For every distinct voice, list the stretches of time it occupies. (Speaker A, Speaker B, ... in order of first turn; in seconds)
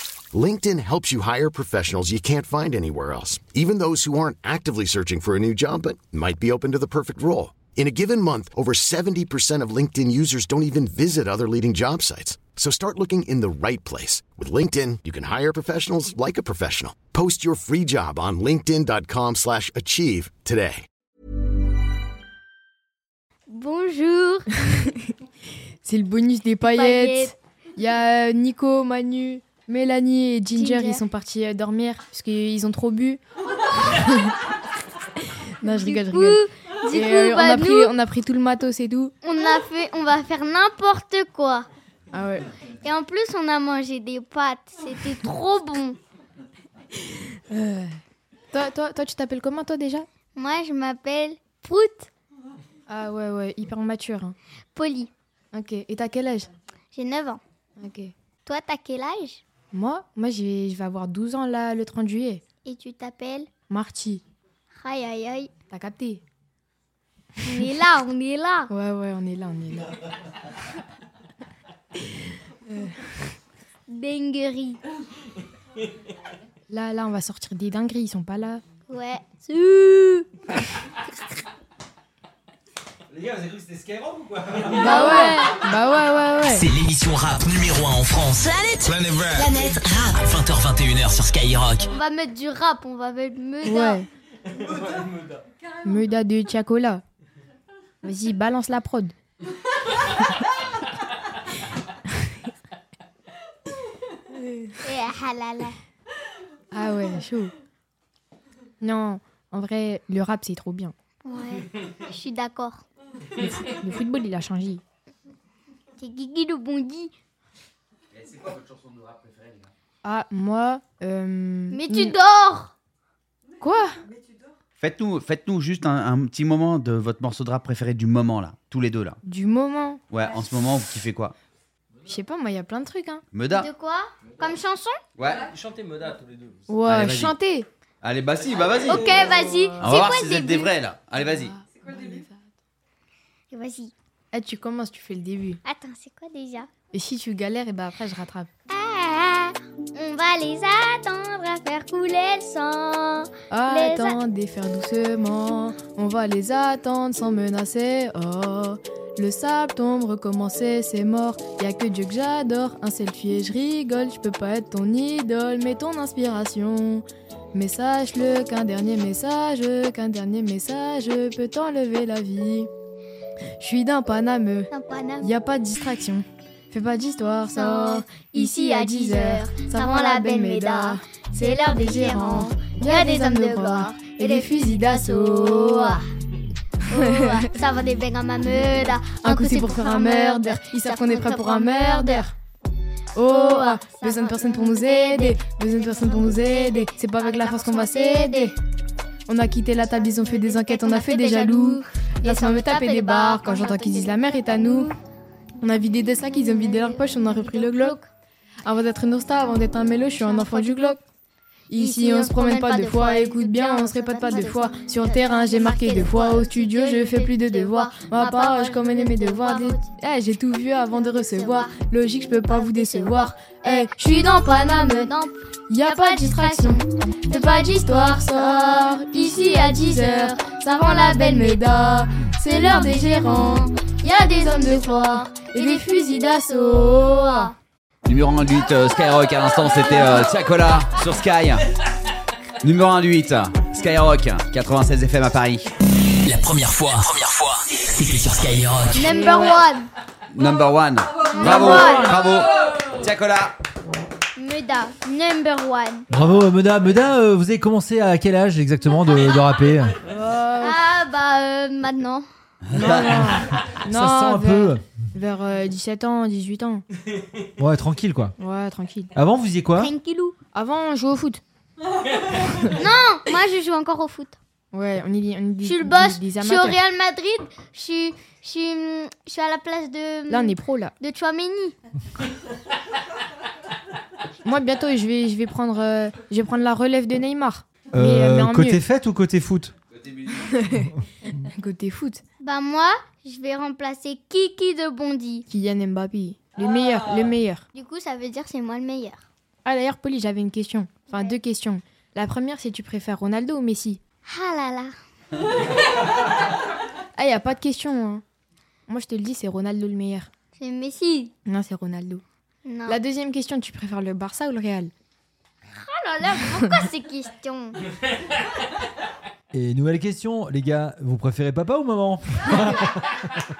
Speaker A: 0.3-20.9
Speaker B: 23.5-24.7, 26.7-27.3, 30.5-31.0, 35.6-37.9, 39.2-41.7, 42.8-46.0, 50.4-52.1, 54.8-55.1, 56.9-57.4, 58.5-59.4, 62.6-63.5, 64.8-65.5, 67.4-68.7, 73.9-74.8, 78.9-80.3, 84.7-85.6, 89.3-90.2, 91.9-94.0, 104.8-105.8, 111.2-112.8, 116.0-117.1, 121.7-122.7, 133.5-135.0, 138.9-140.7, 143.5-143.9, 145.6-146.7, 148.7-154.2, 174.7-175.3, 177.5-186.1, 186.9-192.3, 193.3-198.6, 200.2-205.0, 206.2-208.1, 210.2-211.0, 211.7-219.9, 221.0-221.8, 222.5-237.5, 248.9-249.9, 251.2-252.2, 254.4-256.1, 260.6-262.2, 269.8-270.4, 272.7-274.4, 275.6-281.8, 292.4-295.5, 297.8-299.2, 304.3-304.9, 310.6-311.3, 312.6-313.0, 315.7-317.8
Speaker C: 25.8-33.2, 33.8-34.4, 35.6-39.1, 42.1-42.5, 47.2-48.0, 48.5-50.1, 52.9-54.4, 55.5-56.5, 57.8-58.1, 59.7-62.4, 63.7-64.2, 65.7-66.2, 68.7-70.0, 72.7-73.2, 76.7-78.6, 84.6-86.7, 93.6-94.1, 95.8-97.0, 98.0-99.1, 106.7-107.5, 108.8-110.9, 113.4-114.8, 120.0-122.2, 123.6-123.9, 129.2-130.0, 132.1-133.2, 136.7-137.7, 141.2-142.4, 144.3-145.6, 146.9-148.5, 153.5-172.7, 173.6-186.0, 186.9-187.4, 189.2-192.3, 193.2-198.6, 199.3-204.9, 205.6-208.0, 208.6-211.0, 211.7-225.1, 225.7-233.7, 234.3-237.5, 248.9-249.6, 251.4-252.1, 260.0-260.8, 262.7-266.9, 268.4-269.1, 270.5-271.4, 274.7-276.8, 280.3-280.9, 284.4-288.8, 290.5-292.2, 295.5-297.6, 299.6-304.0, 307.2-308.2, 308.9-310.3, 311.5-312.2, 312.9-314.9
Speaker D: 83.2-84.2, 256.1-260.0, 263.8-264.8, 267.6-268.4, 269.1-269.9, 287.9-289.7, 319.5-322.9
Speaker E: 86.5-91.8, 246.2-249.0
Speaker F: 124.8-129.2, 130.1-131.3, 133.3-133.7, 135.2-135.5, 136.9-137.3, 138.0-139.1, 139.8-141.5, 238.1-241.6, 242.6-245.7, 250.3-253.6, 262.8-263.7, 290.0-290.6